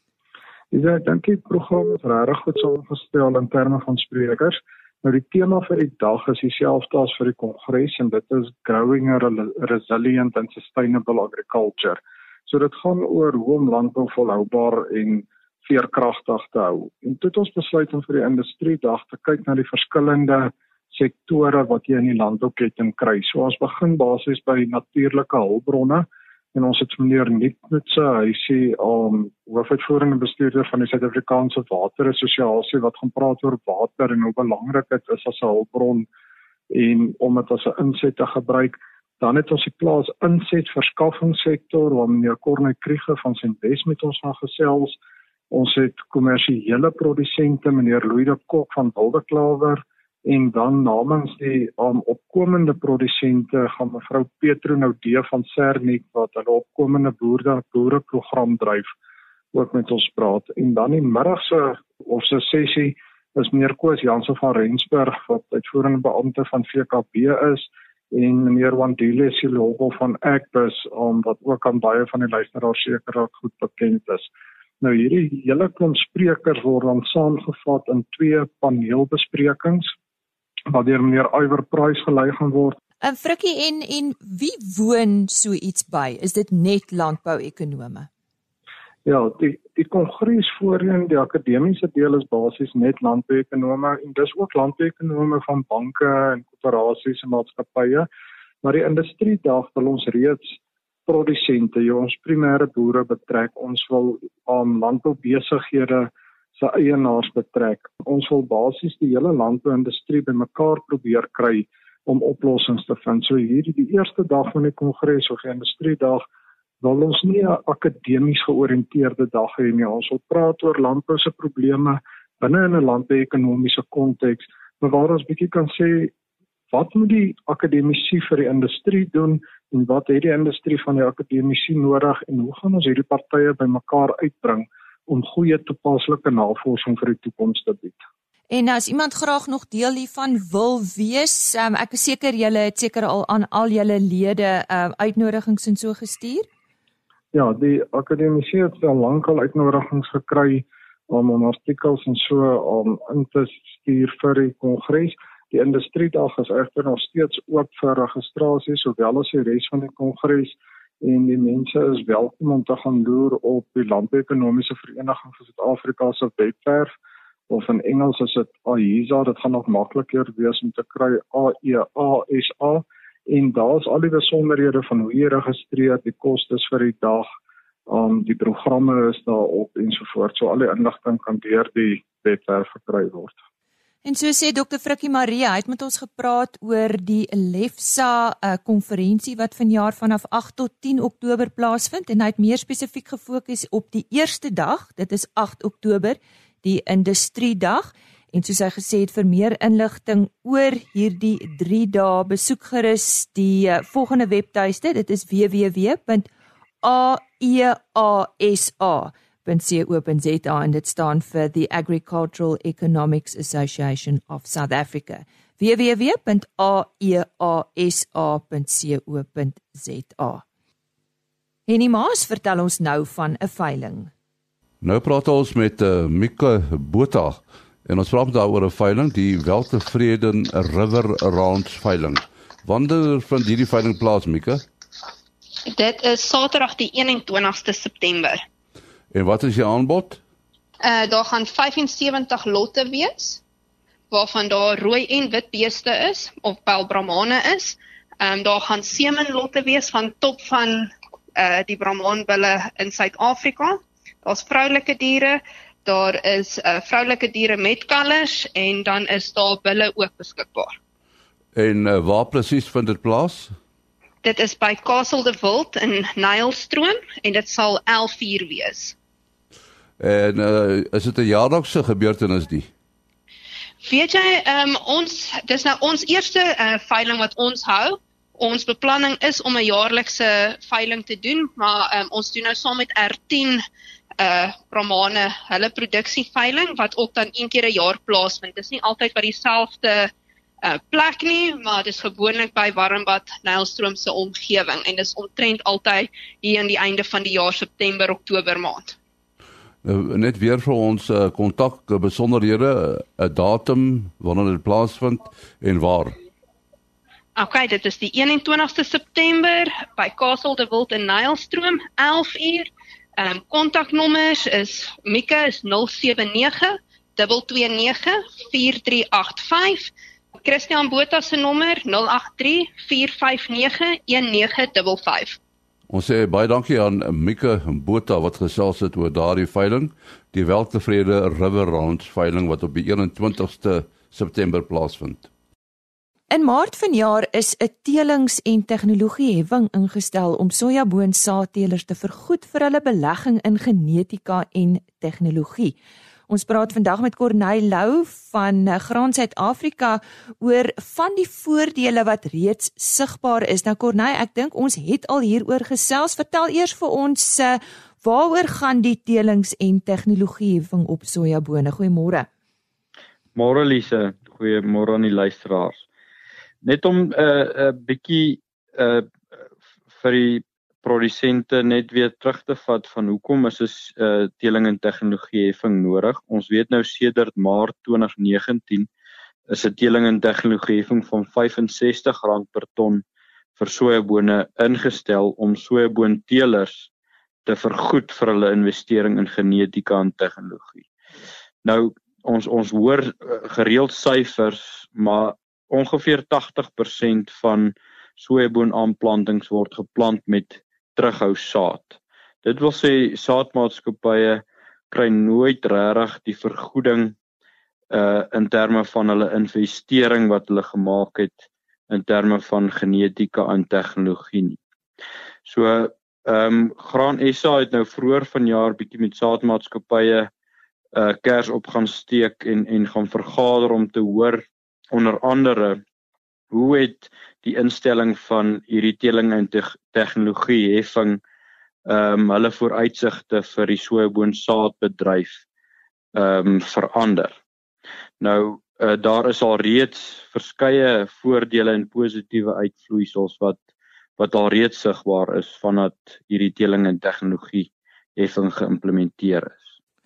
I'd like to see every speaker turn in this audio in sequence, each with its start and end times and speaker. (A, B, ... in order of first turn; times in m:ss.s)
0:00.7-0:36.1 A
0:36.7-0:45.0 A
0:45.5-0:58.9 A
0:59.5-1:14.3 A
1:14.8-1:19.9 A
1:20.7-1:22.8 A
1:23.0-1:28.1 B
1:29.0-1:38.1 A
1:38.6-1:40.6 A
1:41.1-1:56.2 A
1:56.8-2:06.1 A
2:06.7-2:18.0 A
2:18.5-2:26.5 B
2:27.3-2:46.9 A
2:47.5-2:57.3 A
2:57.9-3:03.4 A
3:04.0-3:26.3 B
3:26.8-3:40.4 B
3:41.7-3:44.1 B
3:44.8-3:54.6 C
3:55.6-3:58.4 D
3:59.1-4:00.2 C
4:00.8-4:03.4 D
4:04.1-4:20.8 D
4:21.6-4:23.5 C
4:24.2-4:29.0 D
4:30.0-4:32.7 C
4:33.8-4:43.6 D
4:44.2-4:50.1 D
4:50.6-4:59.0 D
4:59.8-5:06.2 C
5:07.4-5:25.4 D
5:25.9-5:35.3 C
5:36.3-5:45.8 B
5:46.3-6:02.3 B
6:03.4-6:05.9 E
6:06.6-6:09.1 E
6:10.0-6:18.9 E
6:19.5-6:23.0 E
6:23.6-6:26.9 E
6:27.5-6:30.8 E
6:31.6-6:47.2 E
6:47.9-6:54.6 E
6:55.5-7:00.3 E
7:00.9-7:05.8 E
7:06.5-7:11.2 E
7:11.9-7:15.4 E
7:16.2-7:17.4 E
7:18.2-7:23.6 E
7:24.2-7:29.7 E